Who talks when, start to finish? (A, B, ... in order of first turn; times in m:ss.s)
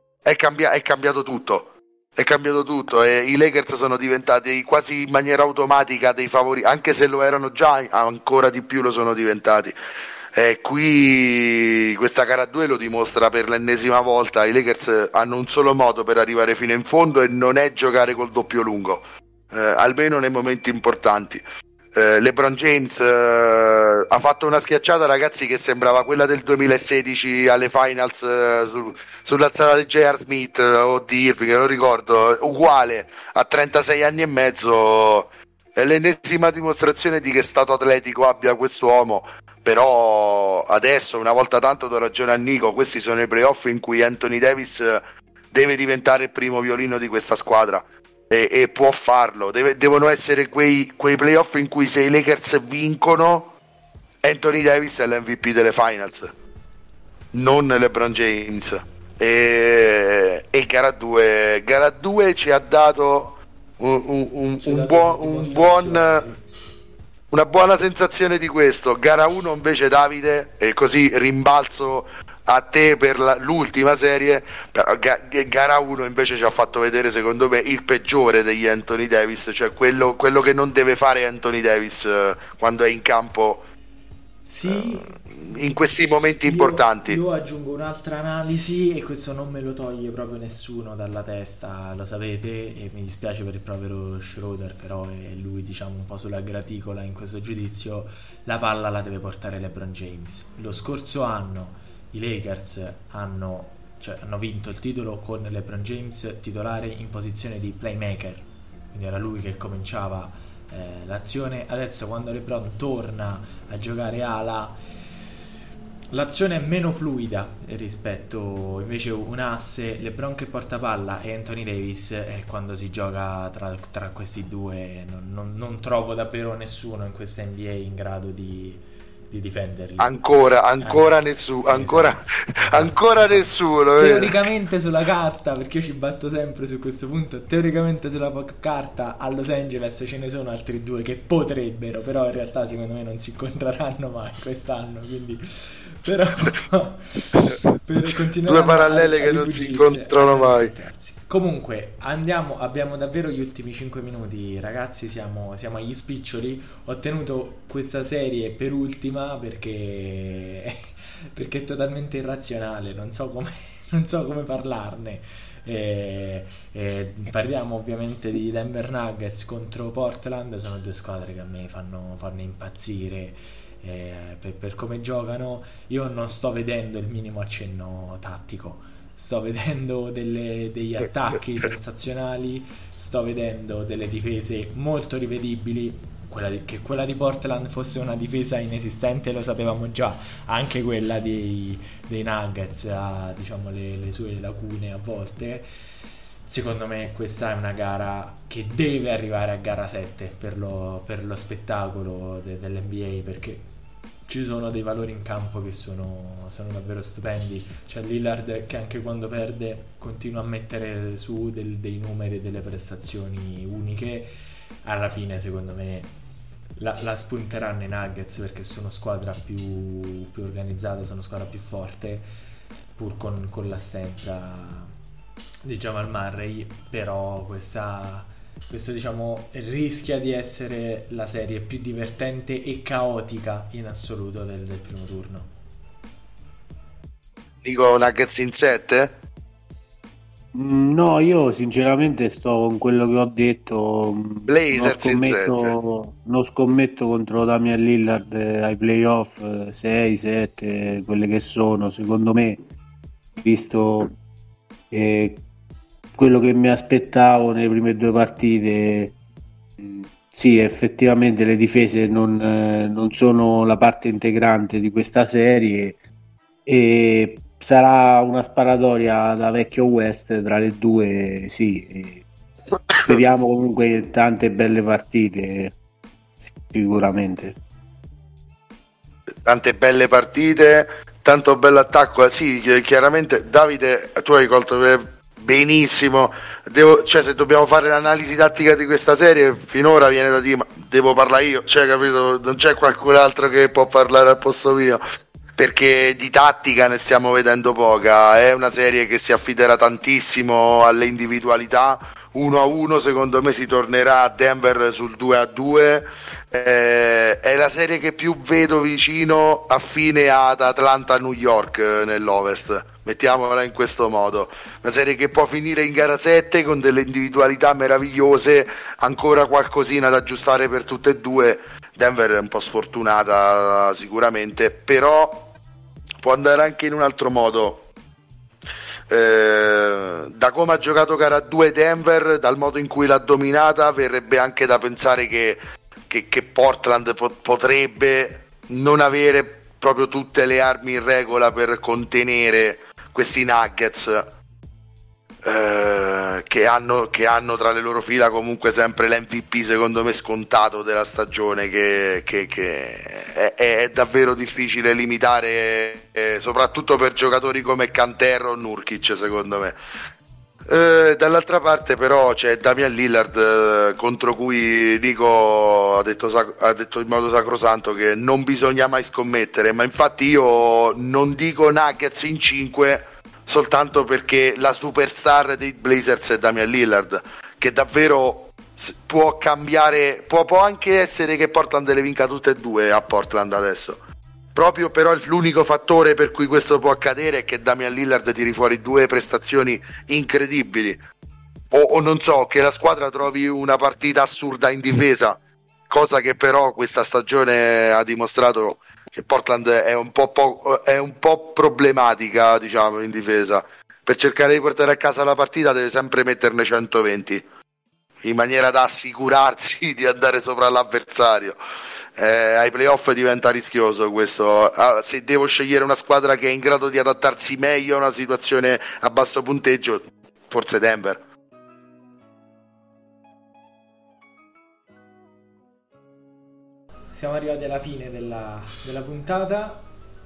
0:00.2-0:09.8 A
0:10.3-0:53.5 A
0:54.2-0:56.3 A
0:57.3-1:06.3 A
1:04.6-1:06.4 B
1:07.3-1:23.6 A
1:24.5-1:25.2 B
1:24.6-1:27.2 A
1:26.4-1:54.8 B
1:56.1-2:10.2 B
2:10.0-2:14.4 A
2:10.8-3:15.6 B
2:28.5-2:30.7 A
3:16.4-3:23.7 B
3:24.3-3:34.3 B
3:34.9-3:36.1 B
3:36.8-3:42.3 B
3:43.0-3:44.9 B
3:45.6-3:55.5 B
3:57.6-3:59.2 A
4:00.5-4:12.6 C
4:04.5-4:05.7 A
4:13.4-4:14.2 C
4:14.9-4:15.4 C
4:16.2-4:19.2 C
4:19.8-4:26.0 C
4:26.6-4:32.2 C
4:33.0-4:35.7 C
4:36.7-4:37.6 C
4:39.4-4:55.0 A
4:55.6-5:25.5 A
5:26.2-5:27.8 A
5:29.1-5:44.3 A
5:45.4-5:59.8 A
6:00.7-6:24.0 A
6:24.6-6:31.0 A
6:31.7-6:47.4 A
6:48.2-6:51.6 A
6:52.2-7:01.2 A
7:07.1-7:09.9 B